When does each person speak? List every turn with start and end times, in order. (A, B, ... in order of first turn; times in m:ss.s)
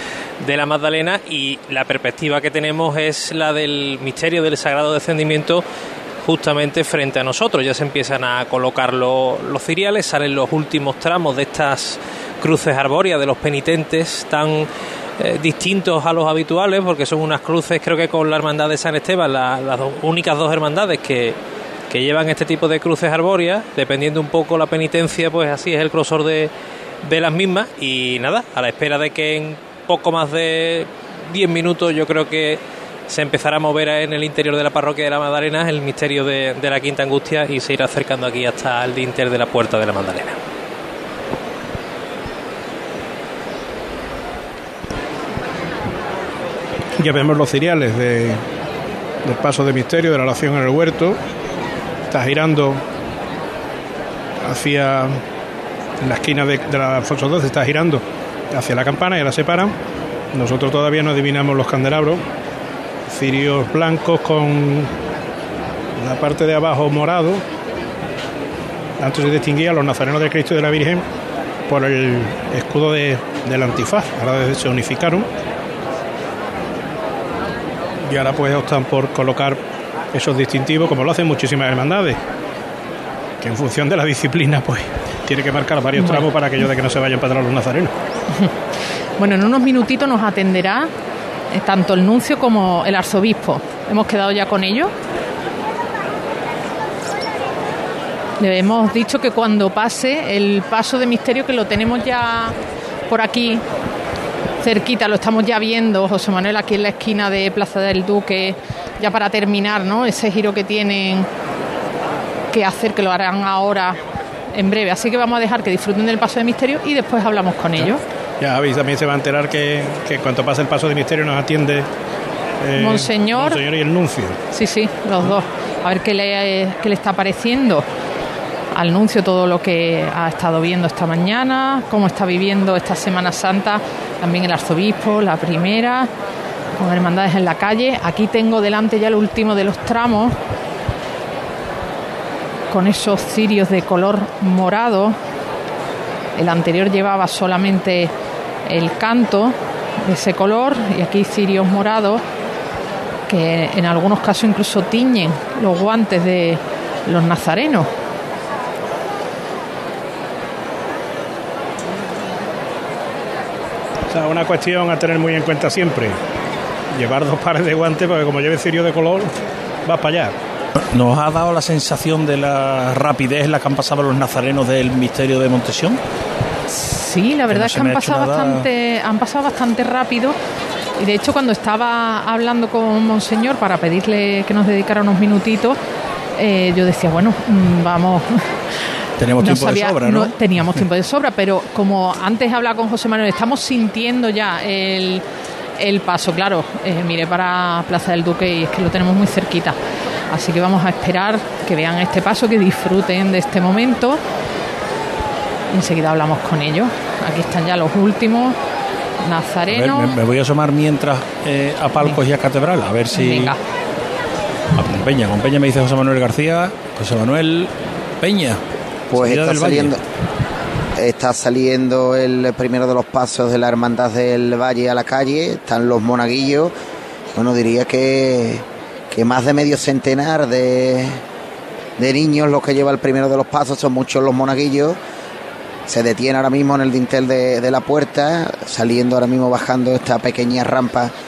0:00.4-0:05.6 A
0:06.2-0:21.4 A
0:21.9-0:26.5 A
0:27.0-0:40.4 A
0:47.0-0:48.4 B
0:49.2-0:51.2 B
0:52.1-0:52.8 B
0:54.4-0:55.2 B
0:56.0-0:59.7 B
1:00.3-1:02.2 B
1:03.1-1:04.9 B
1:06.0-1:07.4 B
1:09.0-1:11.0 B
1:11.7-1:15.3 B
1:18.1-1:19.6 B
1:20.1-1:22.2 B
1:23.4-1:27.9 B
1:26.0-1:26.3 C
1:29.2-1:30.9 C
1:31.5-1:34.9 C
1:38.4-1:42.6 C
1:43.1-1:43.6 C
1:44.6-1:51.3 C
1:52.5-1:54.0 C
1:54.5-1:58.0 C
1:58.4-2:01.9 B
2:02.6-2:04.4 B
2:02.7-2:03.6 C
2:04.5-2:07.8 C
2:08.7-2:16.1 C
2:16.8-2:20.4 C
2:22.7-2:25.2 C
2:26.4-2:28.1 C
2:28.7-2:32.2 C
2:33.3-2:37.9 C
2:44.1-2:46.2 B
2:46.9-2:49.3 B
2:49.8-2:50.3 B
2:50.9-2:56.0 D
2:56.7-3:00.4 C
2:57.5-2:58.7 D
3:01.0-3:05.8 C
3:06.4-3:08.6 C
3:09.2-3:10.8 D
3:09.4-3:15.2 C
3:15.8-3:19.8 C
3:20.3-3:24.2 C
3:25.7-3:28.6 C
3:29.2-3:30.1 C
3:29.7-3:33.6 D
3:33.1-3:33.6 C
3:34.8-3:38.6 D
3:39.1-3:40.0 E
3:39.1-3:39.9 D
3:41.0-3:46.7 E
3:47.3-3:51.2 E
3:52.0-3:55.0 E
3:55.9-4:01.1 E